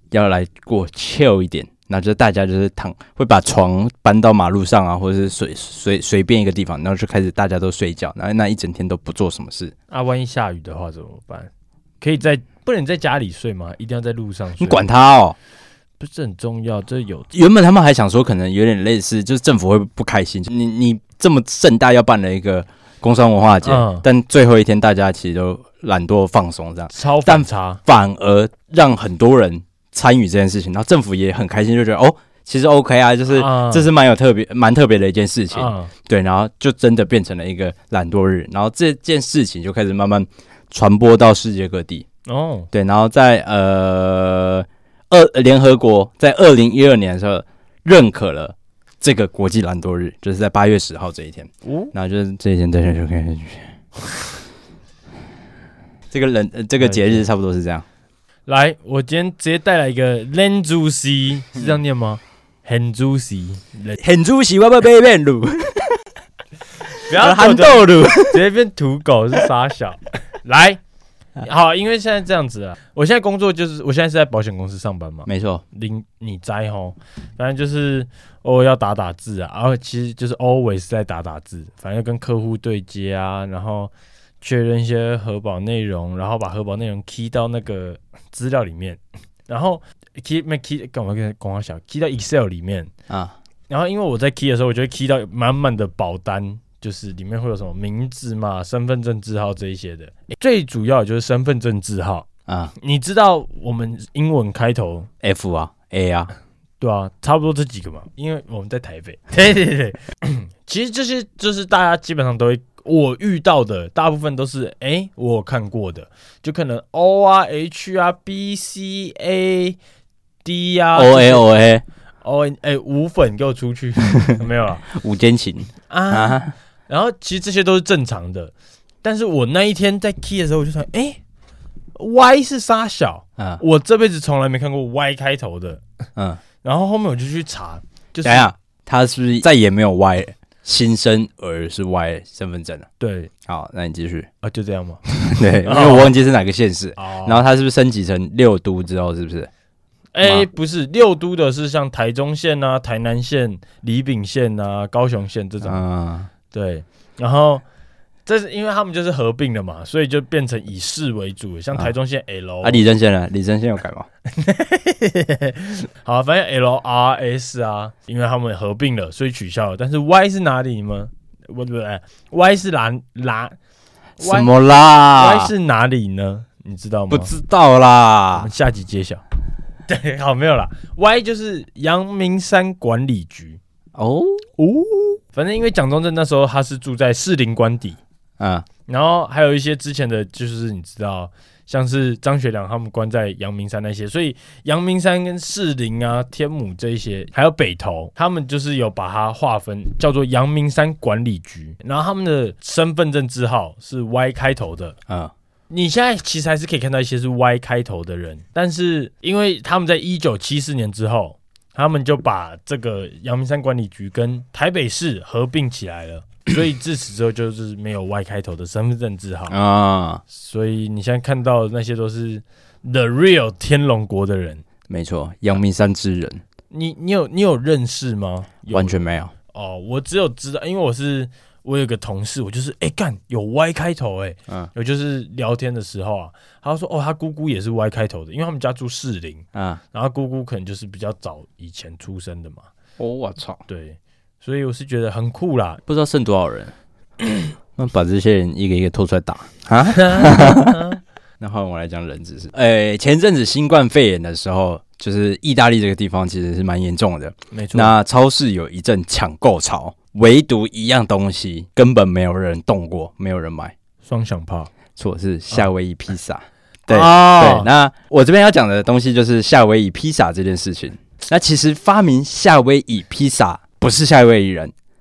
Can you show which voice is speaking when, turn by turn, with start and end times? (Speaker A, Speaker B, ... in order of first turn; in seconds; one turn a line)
Speaker A: 0.1-9.7
Speaker B: 9.9-14.8
Speaker A: 14.6-15.3
Speaker B: 16.0-17.3
Speaker A: 17.3-42.0
Speaker B: 23.6-24.0
Speaker B: 26.9-27.8
Speaker B: 33.3-33.9
Speaker B: 35.5-35.9
Speaker B: 42.2-42.7
Speaker A: 42.7-53.7
Speaker B: 51.6-51.9
Speaker A: 56.1-57.8
Speaker B: 56.8-57.3
Speaker B: 58.5-64.0
Speaker A: 64.0-66.0
Speaker B: 67.0-70.8
Speaker A: 67.2-68.4
Speaker B: 71.4-92.9
Speaker A: 75.2-75.6
Speaker A: 93.1-93.3
Speaker B: 93.7-105.1
Speaker A: 102.5-102.7
Speaker A: 105.2-106.3
Speaker B: 106.8-119.8
Speaker B: 120.4-121.5
Speaker A: 121.0-121.8
Speaker B: 122.2-124.9
Speaker A: 124.9-126.5
Speaker B: 125.9-131.2
Speaker B: 131.9-135.8
Speaker A: 136.2-136.4
Speaker B: 136.6-138.5
Speaker A: 138.2-142.9
Speaker B: 143.0-143.3
Speaker A: 143.4-144.3
Speaker B: 144.4-145.0
Speaker A: 145.1-149.5
Speaker B: 145.6-146.1
Speaker B: 147.0-147.4
Speaker B: 150.1-155.8
Speaker A: 155.6-156.3
Speaker B: 156.5-157.6
Speaker B: 158.2-162.8
Speaker A: 162.6-164.1
Speaker B: 164.3-173.5
Speaker B: 174.2-174.5
Speaker A: 174.2-175.5
Speaker B: 175.1-177.3
Speaker A: 177.1-178.5
Speaker B: 178.3-179.2
Speaker B: 179.9-183.6
Speaker A: 184.0-184.4
Speaker B: 184.6-188.0
Speaker A: 188.4-188.7
Speaker B: 188.9-205.0
Speaker B: 205.7-219.6
Speaker A: 219.5-220.2
Speaker B: 220.3-224.6
Speaker A: 224.9-226.4
Speaker B: 226.7-242.7
Speaker A: 228.7-229.3
Speaker A: 239.5-239.8
Speaker A: 243.0-243.6
Speaker B: 243.7-245.8
Speaker A: 245.9-246.7
Speaker A: 247.8-250.9
Speaker B: 249.9-251.0
Speaker A: 251.4-263.7
Speaker B: 257.5-257.9
Speaker B: 264.0-264.7
Speaker A: 265.0-274.7
Speaker B: 266.9-267.7